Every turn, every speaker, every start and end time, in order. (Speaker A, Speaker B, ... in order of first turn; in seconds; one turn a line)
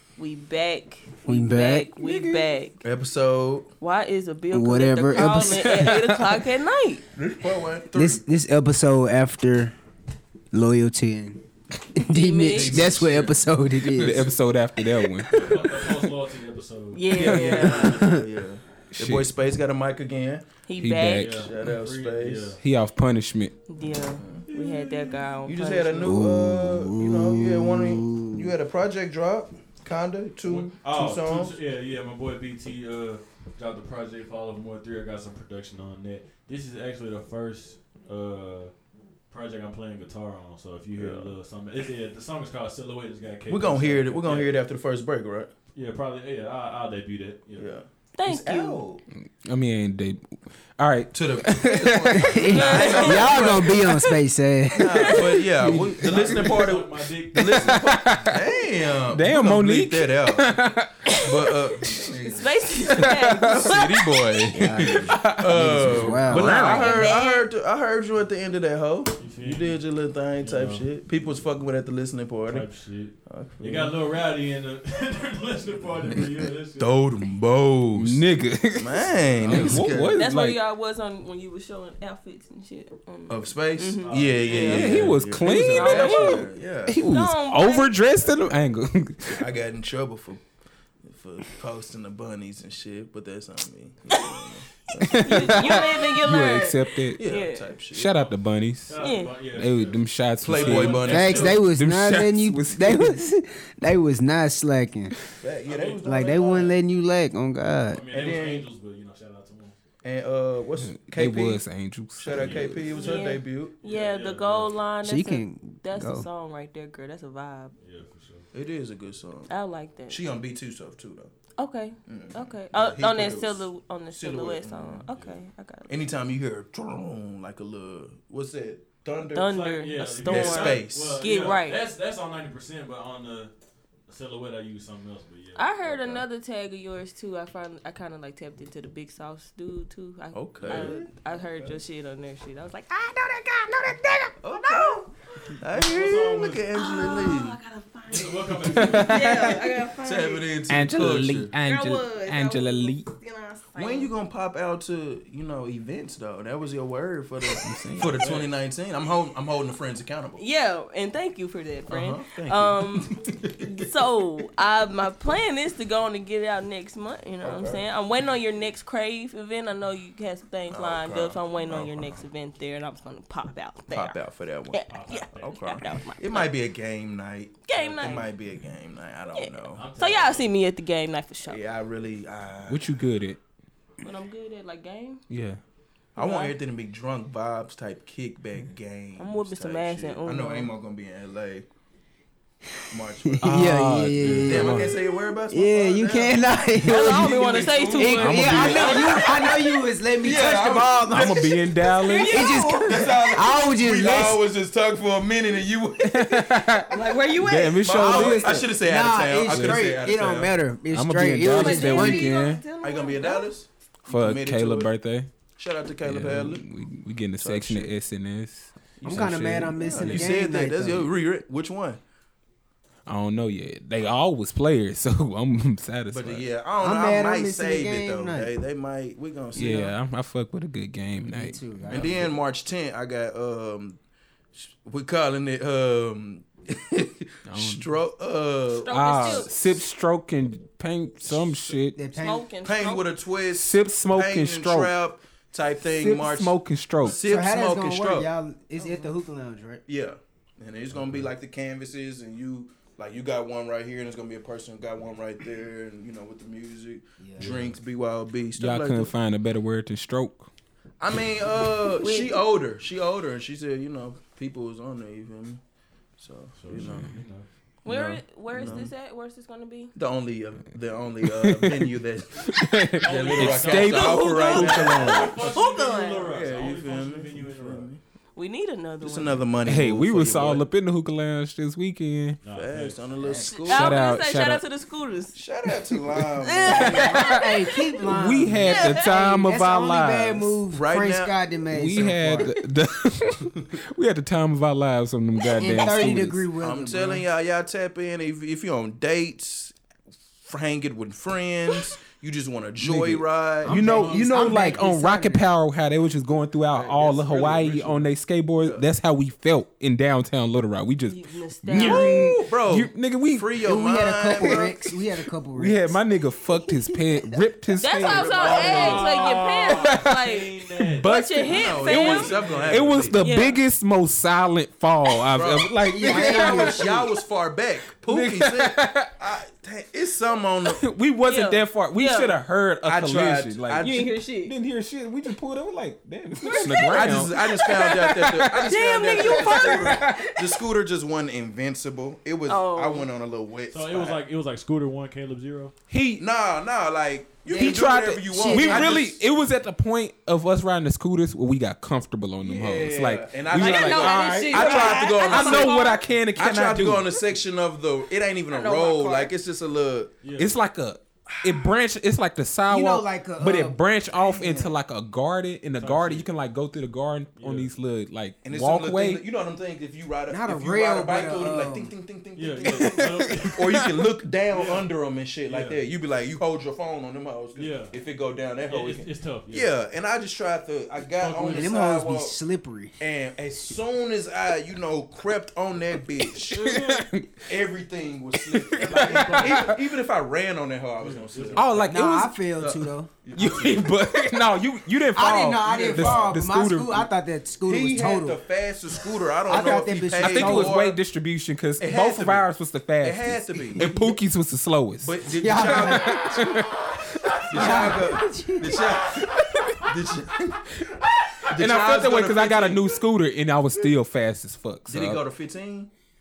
Speaker A: 0.2-2.8
Speaker B: 1.2-1.9
Speaker C: 2.0-2.5
Speaker D: 2.8-3.7
Speaker A: 3.8-7.0
Speaker B: 4.5-6.0
Speaker C: 5.2-6.1
Speaker D: 7.2-8.2
Speaker B: 7.9-9.7
Speaker B: 10.5-11.4
Speaker B: 11.9-14.3
Speaker A: 12.1-13.1
Speaker D: 12.5-13.4
Speaker C: 13.8-16.1
Speaker B: 14.9-15.5
Speaker E: 15.4-18.1
Speaker A: 16.9-17.9
Speaker D: 17.1-20.5
Speaker B: 17.8-18.2
Speaker C: 18.9-19.3
Speaker A: 20.6-21.4
Speaker C: 20.8-21.5
Speaker E: 21.2-22.6
Speaker D: 21.3-22.6
Speaker C: 22.6-23.5
Speaker A: 23.7-26.1
Speaker D: 24.1-24.7
Speaker E: 24.6-25.1
Speaker D: 25.4-31.6
Speaker B: 26.0-28.5
Speaker E: 30.4-44.6
Speaker D: 41.0-41.4
Speaker D: 43.5-45.5
Speaker E: 45.7-47.7
Speaker D: 47.5-49.0
Speaker A: 48.2-48.8
Speaker C: 49.1-52.7
Speaker D: 51.1-54.0
Speaker B: 52.1-56.7
Speaker A: 52.4-54.0
Speaker D: 54.7-60.5
Speaker A: 54.9-55.2
Speaker E: 56.1-57.9
Speaker C: 57.3-58.3
Speaker C: 59.1-62.0
Speaker D: 61.1-73.9
Speaker A: 62.2-64.1
Speaker C: 62.8-67.1
Speaker B: 64.5-66.8
Speaker E: 65.8-66.4
Speaker A: 66.6-67.5
Speaker E: 69.2-70.9
Speaker E: 72.5-77.0
Speaker D: 76.8-80.2
Speaker C: 77.9-80.6
Speaker E: 79.4-79.8
Speaker A: 80.1-88.0
Speaker D: 83.3-87.0
Speaker E: 84.0-85.2
Speaker C: 84.6-89.5
Speaker D: 89.2-90.4
Speaker D: 91.0-95.8
Speaker A: 95.0-97.7
Speaker C: 95.0-97.2
Speaker D: 97.1-98.2
Speaker C: 97.9-103.2
Speaker E: 98.9-101.6
Speaker A: 99.0-99.3
Speaker D: 100.4-101.6
Speaker B: 101.0-105.2
Speaker D: 105.4-106.8
Speaker E: 105.7-106.7
Speaker B: 106.0-108.0
Speaker E: 107.9-109.8
Speaker D: 108.1-108.7
Speaker D: 110.0-111.6
Speaker C: 110.8-112.7
Speaker D: 112.2-113.8
Speaker E: 112.3-114.7
Speaker A: 112.9-117.8
Speaker B: 115.0-116.3
Speaker E: 117.8-118.5
Speaker D: 118.5-119.5
Speaker A: 119.5-120.2
Speaker D: 120.1-121.3
Speaker A: 121.6-126.1
Speaker D: 122.1-125.1
Speaker E: 125.1-125.4
Speaker D: 125.9-129.5
Speaker A: 129.3-131.8
Speaker E: 129.5-133.5
Speaker D: 130.2-131.3
Speaker E: 134.1-136.1
Speaker A: 135.6-145.5
Speaker D: 135.8-136.2
Speaker D: 140.3-141.8
Speaker E: 140.6-140.9
Speaker D: 144.4-147.6
Speaker E: 145.7-146.7
Speaker A: 146.7-150.5
Speaker E: 148.1-149.3
Speaker C: 148.7-149.6
Speaker D: 149.2-151.5
Speaker C: 150.7-153.1
Speaker A: 151.6-154.1
Speaker D: 153.7-160.4
Speaker C: 157.6-158.1
Speaker E: 158.2-158.5
Speaker A: 160.4-176.5
Speaker D: 161.9-163.8
Speaker D: 167.4-167.8
Speaker D: 170.7-172.2
Speaker D: 173.9-174.8
Speaker E: 174.9-175.7
Speaker D: 175.4-179.9
Speaker A: 177.7-178.3
Speaker E: 177.7-178.3
Speaker A: 179.3-181.6
Speaker E: 179.8-180.5
Speaker D: 181.4-182.9
Speaker C: 182.7-183.4
Speaker A: 184.0-185.2
Speaker C: 185.3-185.6
Speaker D: 186.2-191.7
Speaker A: 186.2-186.5
Speaker A: 189.2-190.7
Speaker D: 192.9-199.5
Speaker B: 193.2-195.0
Speaker C: 193.4-195.0
Speaker B: 195.5-197.4
Speaker A: 196.8-199.5
Speaker B: 197.9-201.4
Speaker C: 198.2-199.1
Speaker D: 200.2-201.6
Speaker C: 201.1-202.7
Speaker A: 201.9-203.3
Speaker B: 202.3-204.5
Speaker D: 202.8-206.5
Speaker C: 206.0-208.7
Speaker A: 206.9-208.1
Speaker D: 207.8-210.6
Speaker B: 208.0-212.4
Speaker C: 209.4-209.8
Speaker C: 210.9-212.6
Speaker A: 211.4-213.5
Speaker D: 212.8-214.9
Speaker C: 214.1-215.3
Speaker D: 215.5-216.7
Speaker C: 216.0-220.4
Speaker D: 217.4-217.9
Speaker D: 219.0-222.0
Speaker B: 219.1-221.2
Speaker C: 223.1-226.5
Speaker D: 226.1-229.9
Speaker B: 226.8-228.6
Speaker C: 229.5-232.1
Speaker B: 231.2-232.4
Speaker D: 231.9-234.0
Speaker D: 234.5-239.5
Speaker C: 237.5-237.9
Speaker A: 238.7-239.5
Speaker C: 238.9-242.0
Speaker D: 241.2-241.7
Speaker B: 241.9-242.5
Speaker A: 242.1-243.1
Speaker D: 242.6-248.3
Speaker C: 243.5-244.9
Speaker C: 245.8-247.2
Speaker B: 247.1-249.8
Speaker A: 248.8-249.1
Speaker D: 249.9-259.1
Speaker E: 250.9-251.3
Speaker B: 257.2-257.6
Speaker E: 257.4-257.8
Speaker C: 258.6-260.5
Speaker D: 261.0-265.6
Speaker A: 262.0-262.4
Speaker D: 266.2-267.1
Speaker E: 266.6-267.5
Speaker C: 266.7-267.1
Speaker A: 267.8-269.9
Speaker D: 267.9-268.9
Speaker D: 269.9-278.0
Speaker C: 271.2-271.9
Speaker C: 272.5-275.2
Speaker E: 273.0-277.9
Speaker A: 273.9-276.2
Speaker A: 278.4-279.4
Speaker D: 279.0-280.7
Speaker C: 279.6-282.4
Speaker E: 282.4-283.5
Speaker D: 282.5-284.0
Speaker A: 283.4-285.4
Speaker C: 283.6-284.6
Speaker D: 285.3-287.1
Speaker A: 286.4-287.3
Speaker B: 286.7-292.5
Speaker C: 286.7-290.6
Speaker A: 288.6-289.1
Speaker D: 290.7-291.4
Speaker C: 291.7-296.4
Speaker B: 295.5-297.3
Speaker D: 296.6-299.7
Speaker D: 300.4-303.8
Speaker C: 302.8-313.5
Speaker B: 303.6-305.4
Speaker E: 303.7-304.9
Speaker D: 306.7-308.9
Speaker A: 311.1-312.3
Speaker D: 311.7-314.8
Speaker B: 313.6-316.0
Speaker C: 315.5-318.7
Speaker B: 316.6-317.4
Speaker A: 317.8-320.5
Speaker D: 318.0-319.4
Speaker E: 318.4-323.1
Speaker C: 319.7-320.1
Speaker C: 320.8-327.0
Speaker A: 321.1-322.4
Speaker D: 321.5-323.2
Speaker A: 323.2-323.6
Speaker D: 325.3-330.8
Speaker B: 325.9-327.1
Speaker C: 328.1-329.1
Speaker C: 330.6-338.8
Speaker A: 331.3-332.3
Speaker D: 332.8-334.1
Speaker A: 333.8-334.5
Speaker A: 336.4-337.2
Speaker D: 336.9-344.2
Speaker A: 338.7-340.2
Speaker C: 339.3-340.3
Speaker A: 342.4-343.1
Speaker E: 343.7-345.7
Speaker C: 345.9-346.2
Speaker D: 346.2-349.2
Speaker B: 347.4-349.0
Speaker C: 347.5-357.2
Speaker D: 352.4-360.1
Speaker A: 353.6-356.0
Speaker A: 358.5-359.3
Speaker E: 360.2-360.5
Speaker C: 360.4-369.2
Speaker D: 361.3-361.7
Speaker B: 362.7-363.8
Speaker D: 364.2-364.7
Speaker E: 365.8-366.3
Speaker E: 367.4-367.7
Speaker D: 368.4-382.4
Speaker B: 370.3-371.9
Speaker E: 372.3-373.9
Speaker C: 372.8-374.0
Speaker E: 374.5-374.9
Speaker E: 375.4-375.8
Speaker E: 377.6-377.9
Speaker E: 378.6-379.7
Speaker E: 381.0-381.7
Speaker B: 381.4-383.0
Speaker D: 383.0-386.9
Speaker C: 386.3-387.5
Speaker E: 386.5-387.0
Speaker D: 387.5-391.9
Speaker C: 388.3-389.8
Speaker E: 388.8-389.8
Speaker E: 391.0-391.9
Speaker C: 391.5-392.4
Speaker B: 391.9-393.1
Speaker D: 392.5-394.0
Speaker C: 393.3-397.1
Speaker B: 395.1-398.4
Speaker D: 395.6-396.4
Speaker D: 397.6-401.0
Speaker B: 399.4-400.8
Speaker C: 400.2-406.7
Speaker D: 401.8-402.5
Speaker D: 403.0-403.9
Speaker B: 403.5-404.1
Speaker D: 405.0-406.4
Speaker B: 405.4-406.6
Speaker C: 407.2-407.9
Speaker D: 407.4-409.3
Speaker B: 407.5-409.1
Speaker C: 409.1-409.9
Speaker D: 409.9-410.6
Speaker D: 411.5-413.0
Speaker C: 411.5-415.2
Speaker D: 414.9-415.9